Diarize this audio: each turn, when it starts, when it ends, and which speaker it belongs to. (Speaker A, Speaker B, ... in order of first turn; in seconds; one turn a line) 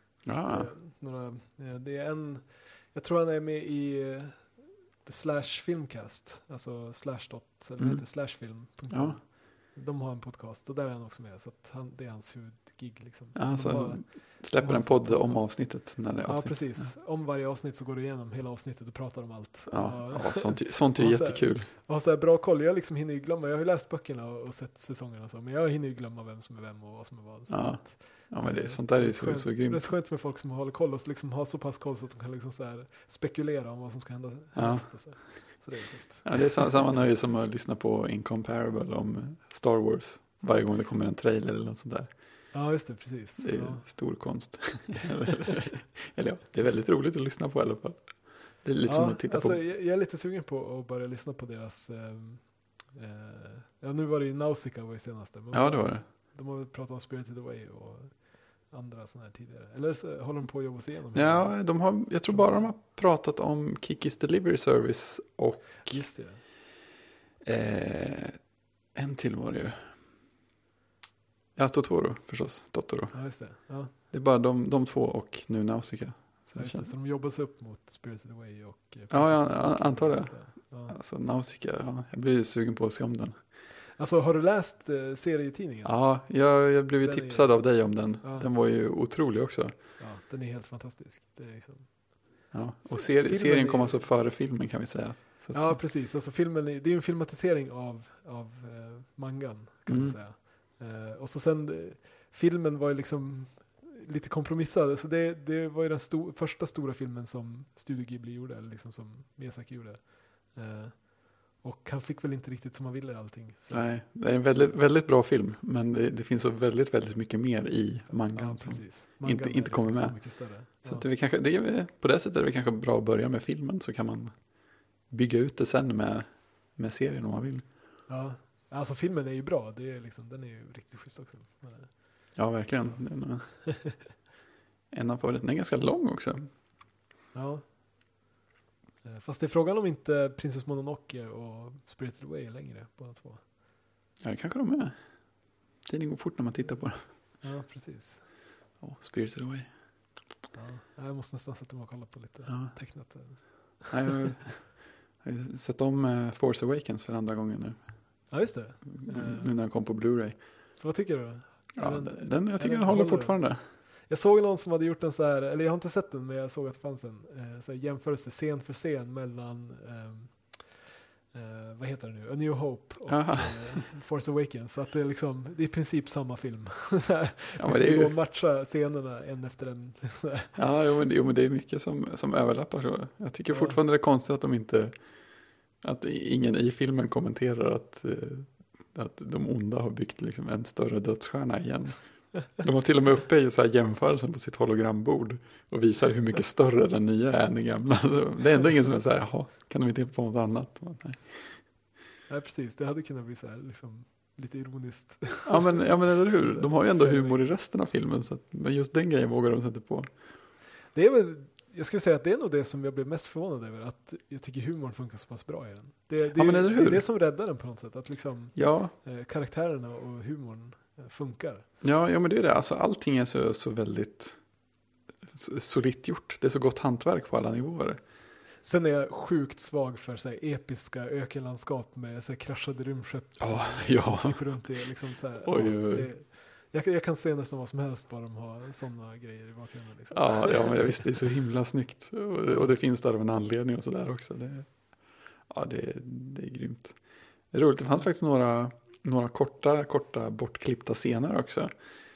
Speaker A: 0.2-0.7
Speaker B: 0.5-37.0
Speaker A: 7.8-9.2
Speaker A: 13.4-16.9
Speaker A: 19.7-21.7
Speaker A: 27.5-29.9
Speaker A: 34.5-35.5
Speaker A: 36.2-42.1
Speaker B: 42.5-43.9
Speaker A: 43.4-49.6
Speaker B: 48.9-62.7
Speaker A: 55.5-56.0
Speaker A: 61.1-66.1
Speaker B: 65.8-66.4
Speaker A: 67.4-68.4
Speaker A: 68.9-69.9
Speaker A: 71.6-76.9
Speaker B: 73.1-73.9
Speaker B: 76.5-81.0
Speaker A: 79.1-83.4
Speaker B: 84.0-86.0
Speaker A: 85.8-89.8
Speaker B: 87.0-88.5
Speaker B: 90.0-94.0
Speaker A: 92.5-95.8
Speaker B: 95.5-114.0
Speaker A: 99.9-100.2
Speaker A: 113.7-124.5
Speaker B: 118.2-121.1
Speaker A: 125.1-127.7
Speaker B: 128.1-133.0
Speaker A: 132.3-133.6
Speaker B: 133.7-134.0
Speaker A: 134.9-136.5
Speaker B: 137.3-137.7
Speaker B: 139.0-143.4
Speaker A: 144.2-145.0
Speaker A: 145.8-147.0
Speaker B: 147.4-148.2
Speaker A: 148.8-149.7
Speaker B: 150.5-154.2
Speaker A: 152.5-152.8
Speaker A: 153.9-158.3
Speaker B: 158.3-159.5
Speaker A: 158.9-160.4
Speaker B: 160.7-170.8
Speaker A: 161.8-163.6
Speaker B: 171.3-180.6
Speaker A: 173.1-173.9
Speaker A: 177.6-178.2
Speaker A: 180.6-185.0
Speaker B: 183.5-183.8
Speaker A: 185.8-201.6
Speaker B: 202.3-207.4
Speaker A: 205.4-210.1
Speaker B: 210.9-221.7
Speaker A: 216.3-217.1
Speaker A: 218.6-218.9
Speaker A: 221.8-224.4
Speaker A: 225.3-228.0
Speaker B: 228.6-241.1
Speaker A: 233.4-234.6
Speaker A: 235.4-236.1
Speaker A: 240.1-244.9
Speaker B: 242.5-242.7
Speaker A: 245.5-247.0
Speaker A: 247.5-251.7